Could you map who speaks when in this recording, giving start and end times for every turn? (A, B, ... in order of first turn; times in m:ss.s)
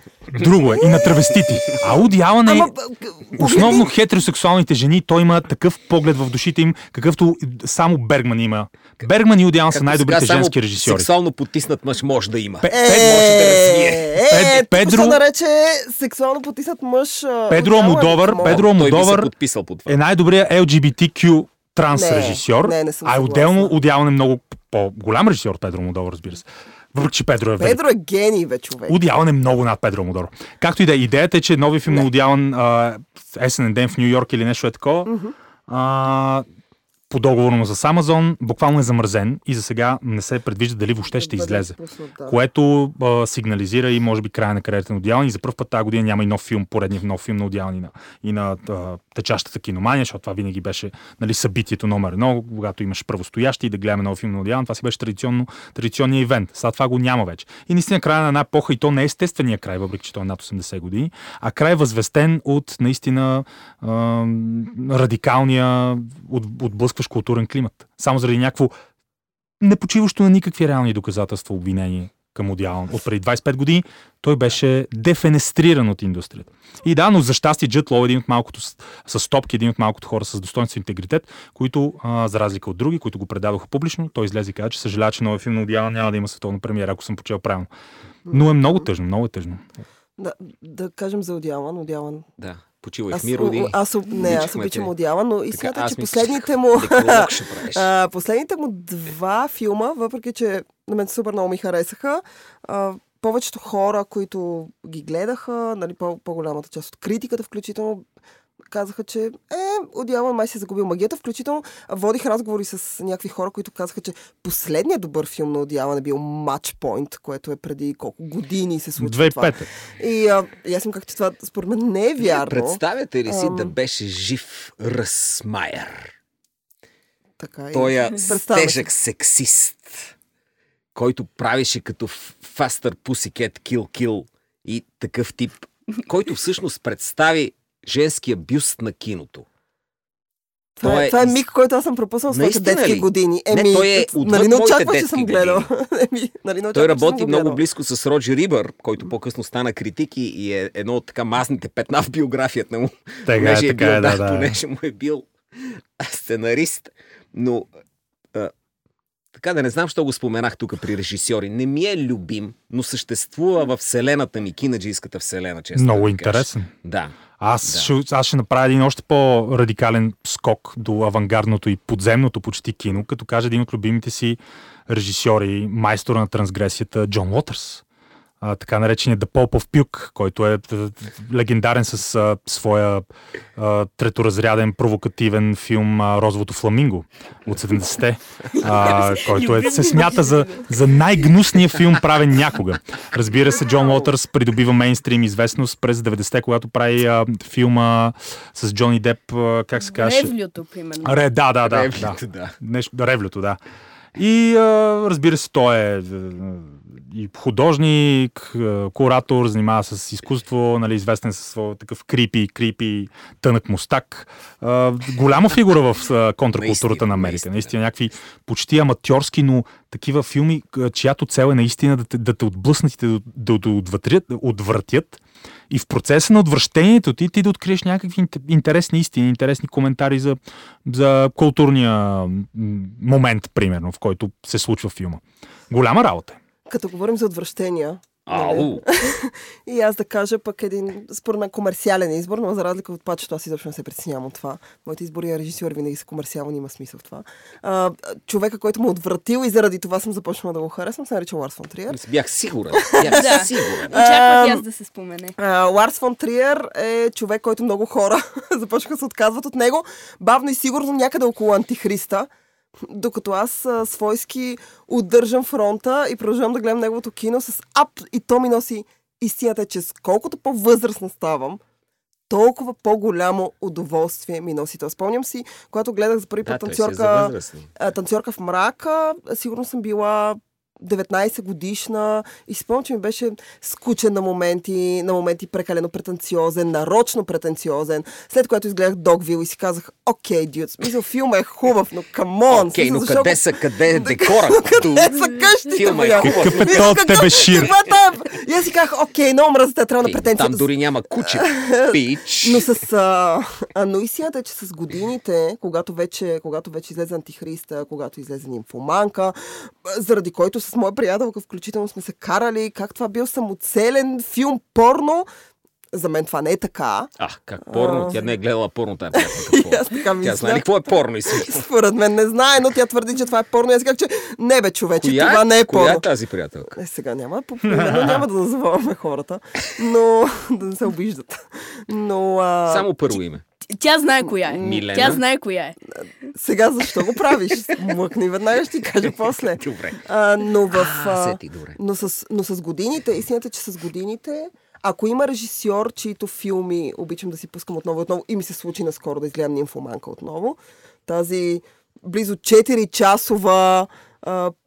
0:00.3-0:02.7 A
0:02.4-0:03.9 B
0:03.4-0:11.1 A
0:09.7-0:14.1 C
0:12.6-0:13.4 A
0:12.7-0:18.7 B
0:14.3-0:15.2 A
0:17.5-0:19.3 A
0:18.4-0:20.0 C
0:19.9-0:27.8 A
0:21.9-0:23.8 B
0:27.6-0:29.0 B
0:28.9-0:35.1 A
0:35.1-0:35.3 B
0:35.7-0:36.5 A
0:37.1-0:41.8 A
0:41.1-0:42.4 B
0:42.3-1:08.7 A
1:09.6-1:27.7 A
1:28.3-1:28.9 B
1:28.3-1:29.6 A
1:30.2-1:32.3 B
1:32.4-1:34.9 C
1:33.1-1:48.0 B
1:35.5-1:37.9 C
1:48.7-2:03.7 B
1:59.0-1:59.7 A
2:02.2-2:06.1 C
2:07.4-2:08.9 B
2:07.7-2:10.1 C
2:11.0-2:19.5 C
2:20.8-2:27.6 B
2:20.8-2:21.4 C
2:22.3-2:25.7 C
2:26.7-2:37.7 C
2:33.3-2:34.6 A
2:39.4-2:47.9 C
2:45.8-2:46.7 A
2:47.4-2:57.8 A
2:58.4-3:20.3 A
3:08.7-3:10.7 D
3:19.8-3:21.2 D
3:21.0-3:23.6 A
3:21.6-3:22.6 C
3:24.2-3:56.4 A
3:36.6-3:37.7 C
3:56.7-4:12.0 B
3:58.3-3:58.8 C
4:11.9-4:14.0 C
4:12.7-4:14.6 B
4:13.0-4:15.3 D
4:15.4-4:22.3 B
4:22.8-4:31.6 B
4:32.3-5:00.7 B
4:36.4-4:37.8 C
4:52.5-4:55.2 C
4:55.7-4:57.0 C
4:56.2-4:57.7 A
5:00.0-5:02.7 C
5:01.2-5:15.3 B
5:15.9-5:17.1 B
5:17.2-5:21.6 C
5:17.7-5:18.3 B
5:19.1-5:20.7 B
5:21.3-5:26.1 B
5:25.0-5:26.7 C
5:26.7-5:32.9 B
5:27.8-5:28.2 A
5:32.7-5:33.4 C
5:33.7-5:35.8 D
5:34.5-5:34.9 B
5:34.6-5:35.2 C
5:36.3-5:54.5 B
5:39.4-5:40.0 C
5:40.7-5:41.8 C